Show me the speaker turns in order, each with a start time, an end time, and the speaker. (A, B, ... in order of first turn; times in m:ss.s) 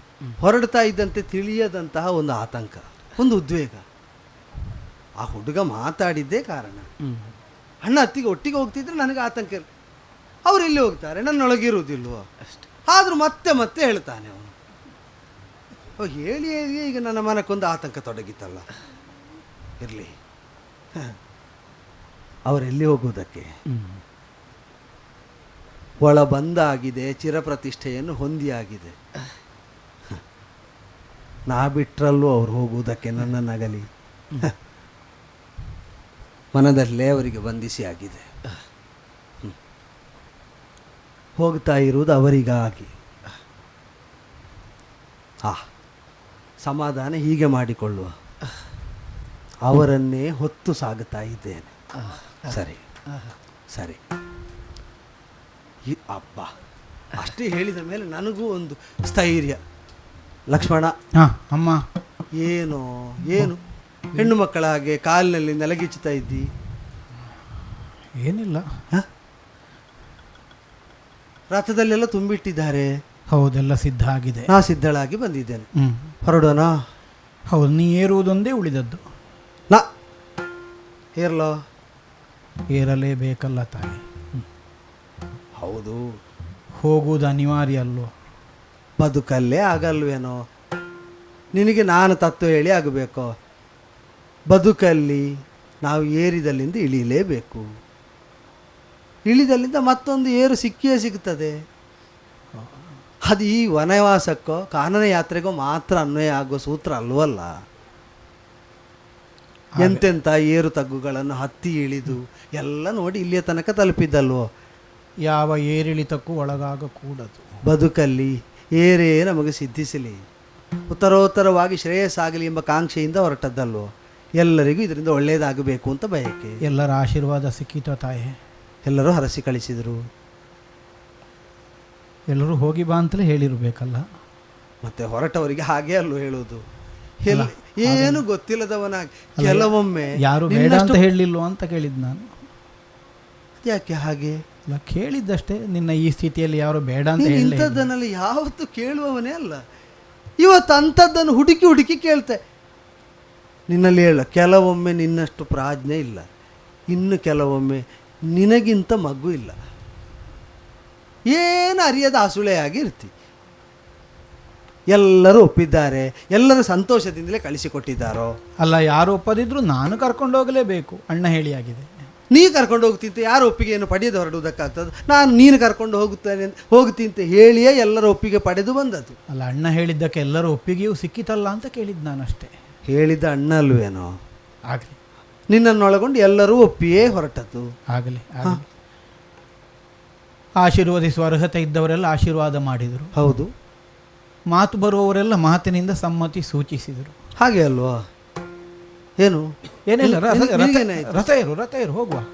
0:00.4-0:03.8 A
0:05.2-0:06.9 A
0:07.8-0:09.6 A
0:10.5-0:12.2 A
0:12.9-0:14.5 A
0:16.0-0:18.6 A
0:19.8-0:20.1 A
0:22.5-0:23.5 A
0:26.0-0:29.0 A
0:31.5-0:33.9 A
0:36.5-0:38.3 A
0:41.4-0:42.9 A
0:46.6-0:48.1 A
0:49.6-0:51.7 A
0:52.4-0:52.8 A
0:53.7-0:54.0 A
0:55.9-0:56.5 A
0:57.1-0:59.6 A
1:00.5-1:00.9 A
1:01.2-1:01.8 B
1:02.4-1:03.6 A
1:04.2-1:06.5 A
1:08.2-1:08.6 B
1:11.5-1:12.9 A
1:13.3-1:14.5 B
1:14.5-1:15.7 A
1:15.8-1:16.1 B
1:16.2-1:16.8 A
1:17.5-1:19.0 B
1:21.2-1:21.5 A
1:22.7-1:24.0 B
1:25.6-1:26.0 A
1:26.8-1:28.1 B
1:29.0-1:30.4 A
1:31.6-1:33.3 A
1:34.5-1:35.2 A
1:35.8-1:37.6 A
1:39.3-1:41.5 A
1:43.3-1:47.5 A
1:49.8-1:50.0 B
1:49.8-1:54.4 A
1:55.2-1:57.4 B
1:57.6-2:00.2 A
2:00.9-2:03.9 A
2:04.4-2:06.6 A
2:06.6-2:08.4 B
2:08.9-2:10.0 A
2:12.3-2:14.0 B
2:14.8-2:16.6 A
2:17.2-2:21.0 A
2:17.3-2:18.2 B
2:19.4-2:22.3 B
2:23.6-2:24.4 A
2:24.7-2:27.8 B
2:27.2-2:29.6 A
2:30.4-2:32.4 A
2:33.7-2:36.2 A
2:36.9-2:39.6 A
2:41.3-2:43.1 A
2:44.9-2:48.3 A
2:48.6-2:51.9 B
2:52.3-2:59.2 A
2:59.3-3:02.5 B
3:02.9-3:04.1 A
3:04.7-3:05.0 B
3:05.5-3:07.7 A
3:07.9-3:08.6 B
3:10.6-3:13.1 B
3:13.2-3:13.5 A
3:14.5-3:17.1 B
3:17.4-3:18.0 A
3:19.2-3:19.5 A
3:19.9-3:22.2 B
3:20.0-3:21.3 A